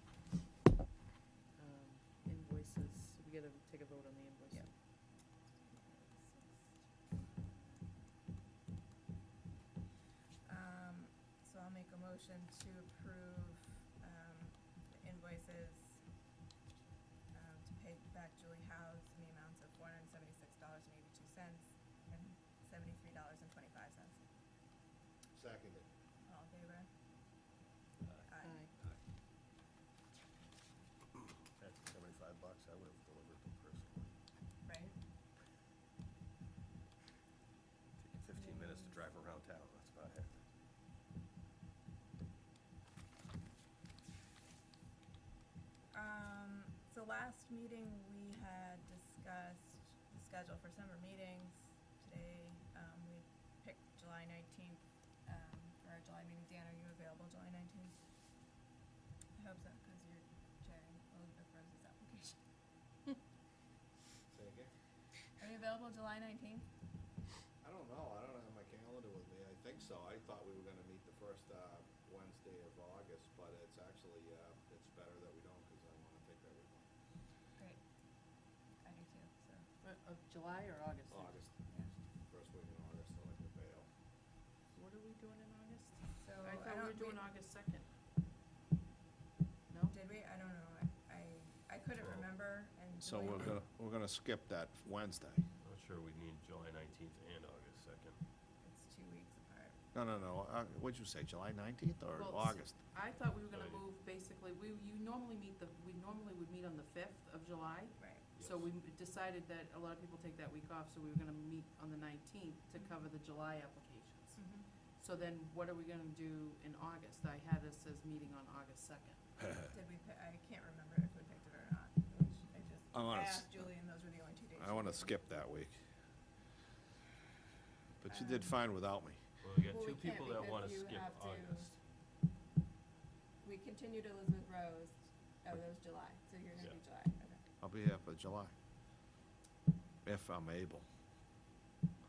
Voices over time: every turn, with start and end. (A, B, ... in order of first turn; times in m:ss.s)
0:01.6-0:04.7 A
0:05.6-0:06.6 B
0:10.4-0:16.0 B
0:17.3-0:24.2 B
0:25.3-0:25.9 C
0:26.3-0:26.9 B
0:28.3-0:28.7 B
0:28.4-0:28.7 A
0:31.1-0:34.1 D
0:34.6-0:35.0 B
0:38.0-0:40.4 D
0:38.3-0:39.0 B
0:45.9-0:58.0 B
0:59.4-1:02.4 B
1:04.3-1:04.7 C
1:05.4-1:06.7 B
1:07.6-1:16.9 C
1:18.8-1:19.7 B
1:19.8-1:21.4 A
1:21.1-1:21.5 C
1:22.3-1:23.9 C
1:24.7-1:27.9 A
1:26.1-1:27.2 B
1:29.7-1:30.0 A
1:29.9-1:33.6 B
1:33.0-1:35.4 C
1:35.6-1:38.2 D
1:38.6-1:39.8 B
1:39.9-1:42.7 C
1:42.2-1:59.2 A
1:43.5-1:43.8 D
1:48.0-1:48.2 B
1:48.4-1:48.7 D
1:54.4-1:54.7 B
1:59.7-2:05.2 B
2:02.9-2:03.5 C
2:04.6-2:05.7 C
2:08.0-2:09.2 C
2:08.1-2:08.5 B
2:09.4-2:11.8 D
2:09.7-2:11.7 B
2:13.4-2:17.4 B
2:17.6-2:18.5 C
2:20.0-2:20.8 C